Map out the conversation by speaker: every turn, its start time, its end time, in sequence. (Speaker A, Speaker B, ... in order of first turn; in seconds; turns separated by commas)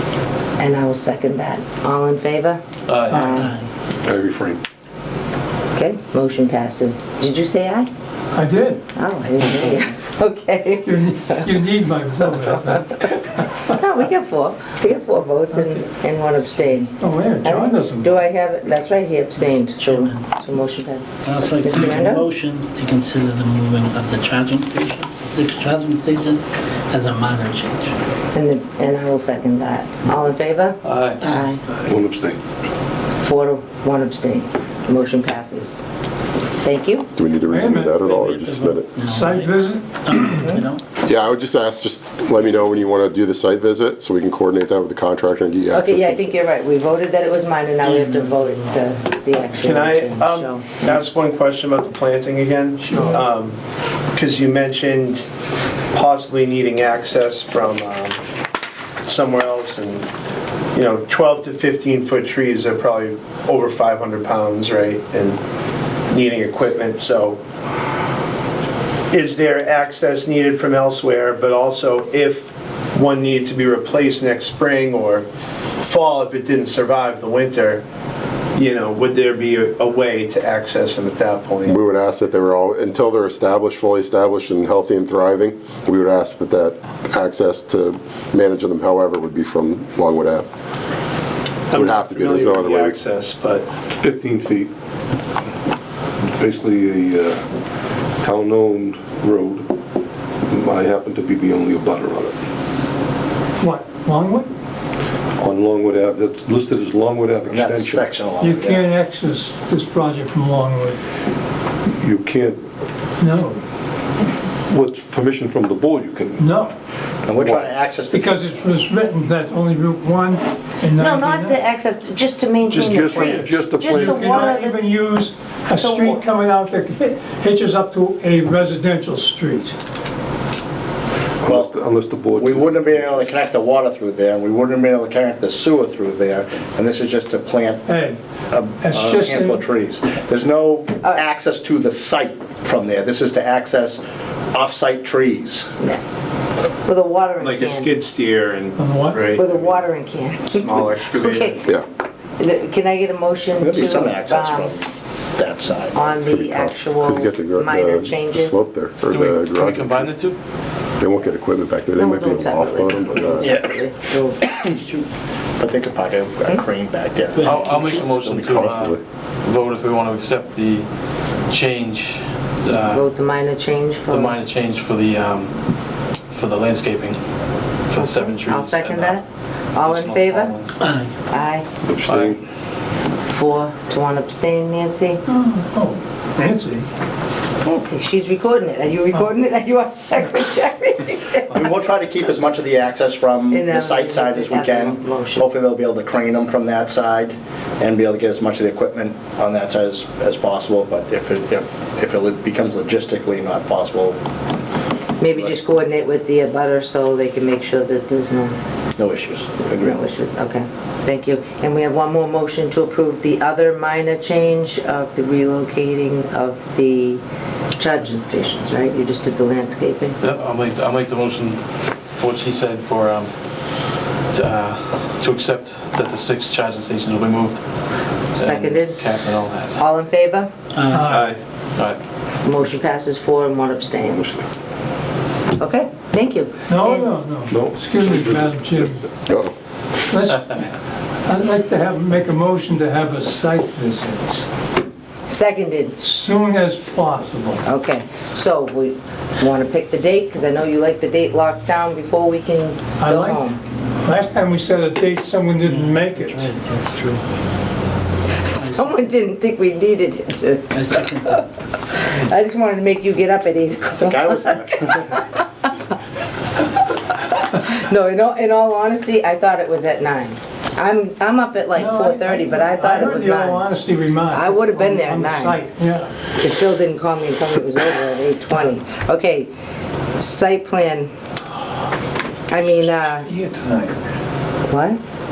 Speaker A: 0.6-3.5, Speaker B: 2.9-3.4, Speaker C: 3.1-3.5, Speaker D: 3.4-3.6, Speaker E: 4.0-4.6, Speaker A: 5.7-7.9, Speaker C: 8.3-8.8, Speaker A: 8.9-11.5, Speaker C: 10.8-13.8, Speaker A: 13.7-22.2, Speaker C: 15.5-15.9, Speaker C: 17.0-18.2, Speaker D: 19.4-20.2, Speaker D: 21.2-27.9, Speaker A: 28.3-31.6, Speaker B: 30.8-31.2, Speaker E: 31.9-32.4, Speaker A: 33.2-35.8, Speaker A: 36.6-37.1, Speaker F: 37.1-38.9, Speaker C: 37.5-38.3, Speaker D: 38.1-40.8, Speaker C: 39.0-40.5, Speaker F: 41.0-46.3, Speaker A: 45.7-50.9, Speaker D: 47.8-48.7, Speaker G: 49.6-53.6, Speaker C: 52.8-53.2, Speaker G: 54.1-55.3, Speaker G: 55.9-58.2, Speaker G: 59.0-60.1, Speaker G: 60.7-65.4, Speaker G: 66.1-67.4, Speaker G: 69.1-75.2, Speaker G: 75.8-77.8, Speaker G: 78.5-81.7, Speaker F: 81.7-90.5, Speaker G: 91.7-93.6, Speaker F: 91.7-93.0, Speaker E: 93.9-94.7, Speaker E: 96.2-97.5, Speaker E: 98.2-99.7, Speaker E: 100.5-102.3, Speaker C: 103.6-104.5, Speaker E: 105.4-108.1, Speaker H: 107.5-108.9, Speaker C: 108.4-111.0, Speaker E: 111.9-112.6, Speaker C: 113.2-113.6, Speaker E: 114.7-116.5, Speaker C: 116.4-116.7, Speaker H: 117.2-118.3, Speaker E: 117.4-117.8, Speaker C: 118.1-121.6, Speaker A: 121.0-124.8, Speaker E: 122.7-124.6, Speaker C: 123.1-129.8, Speaker A: 125.8-126.2, Speaker E: 131.4-133.3, Speaker H: 131.5-131.7, Speaker H: 132.4-137.8, Speaker C: 137.8-138.2, Speaker H: 138.5-144.0, Speaker C: 138.8-139.7, Speaker H: 144.5-145.7, Speaker A: 146.8-147.9, Speaker G: 147.4-149.8, Speaker C: 148.8-149.2, Speaker A: 149.3-151.7, Speaker G: 150.5-151.6, Speaker A: 152.4-154.7, Speaker H: 153.6-156.1, Speaker A: 155.9-158.6, Speaker F: 156.2-160.1, Speaker B: 159.1-160.3, Speaker F: 161.0-163.6, Speaker A: 161.9-164.7, Speaker H: 165.6-168.2, Speaker D: 167.4-167.6, Speaker B: 167.4-170.8, Speaker F: 168.2-169.0, Speaker B: 171.5-173.0, Speaker A: 172.9-174.4, Speaker B: 174.1-175.5, Speaker B: 176.3-177.2, Speaker B: 177.9-179.2, Speaker A: 178.0-180.5, Speaker B: 179.8-180.7, Speaker D: 180.8-181.1, Speaker A: 181.3-181.7, Speaker E: 181.8-182.4, Speaker B: 182.1-182.4, Speaker A: 183.3-185.2, Speaker C: 185.3-186.9, Speaker A: 187.6-191.5, Speaker H: 191.5-204.2, Speaker A: 193.5-195.5, Speaker A: 205.2-208.6, Speaker H: 208.9-210.0, Speaker A: 209.8-217.2, Speaker A: 217.8-220.2, Speaker B: 220.2-221.6, Speaker B: 222.1-223.3, Speaker B: 224.3-227.6, Speaker A: 228.3-229.0, Speaker B: 228.3-229.8, Speaker A: 229.8-230.5, Speaker D: 230.7-231.0, Speaker C: 230.9-231.3, Speaker G: 231.1-231.4, Speaker A: 232.4-234.2, Speaker E: 234.0-234.4, Speaker A: 235.6-237.1, Speaker C: 236.7-239.0, Speaker E: 237.5-238.9, Speaker F: 239.3-239.5, Speaker C: 240.1-240.7, Speaker C: 241.2-244.4, Speaker A: 245.3-246.0, Speaker C: 246.0-247.6, Speaker A: 247.6-253.6, Speaker C: 253.0-256.5, Speaker D: 255.7-257.2, Speaker A: 258.4-261.4, Speaker D: 258.5-259.0, Speaker D: 260.7-261.4, Speaker A: 262.0-265.7, Speaker H: 264.0-265.1, Speaker A: 267.5-273.6, Speaker C: 271.8-276.1, Speaker A: 274.3-275.6, Speaker A: 276.4-279.5, Speaker A: 280.2-281.1, Speaker A: 282.5-283.3, Speaker C: 282.6-284.0, Speaker A: 284.7-285.0